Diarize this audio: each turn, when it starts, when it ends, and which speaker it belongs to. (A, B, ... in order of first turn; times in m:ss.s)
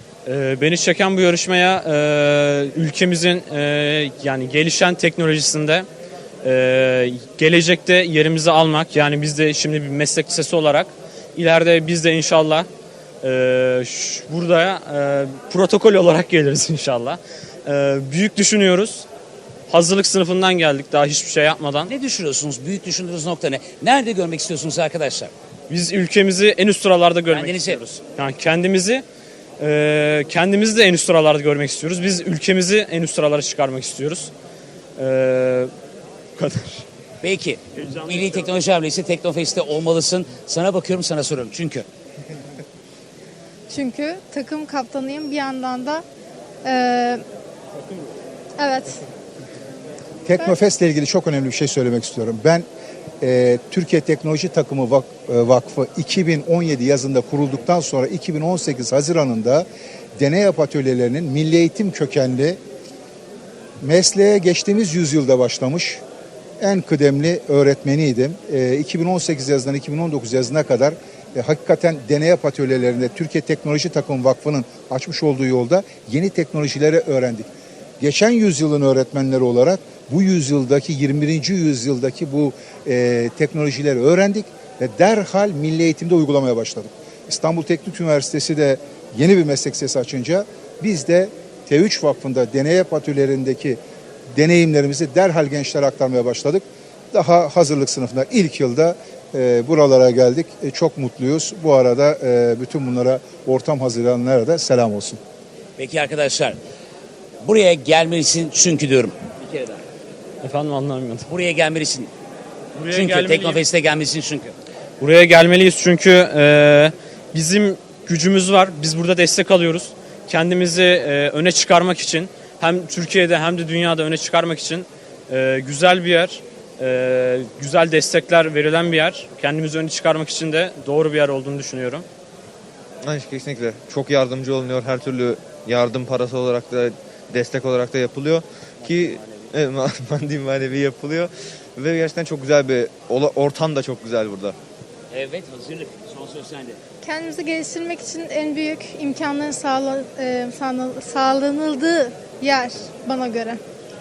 0:00.2-0:05.8 A
0:06.4-0:12.7 A
0:13.2-0:19.0 A
0:19.7-0:21.9 A
0:21.9-0:25.3 B
0:25.7-0:29.0 A
0:27.3-0:27.8 B
0:29.6-0:34.3 A
0:35.0-0:35.7 A
0:36.4-0:36.8 A
0:37.2-0:41.8 B
0:38.0-0:38.3 A
0:43.7-0:46.0 C
0:46.6-0:47.2 C
0:48.6-0:49.0 C
0:50.2-0:52.6 D
0:53.2-0:59.7 D
1:00.2-1:02.6 D
1:03.8-1:06.0 D
1:06.6-1:17.5 D
1:18.0-1:33.8 D
1:34.3-1:45.2 D
1:45.8-1:46.6 B
1:47.4-1:49.8 B
1:50.4-1:51.3 A
1:51.3-1:52.1 B
1:52.8-1:53.6 A
1:52.9-1:54.5 B
1:55.0-2:12.0 A
2:13.0-2:24.6 E
2:25.1-2:26.8 B
2:27.0-2:33.6 C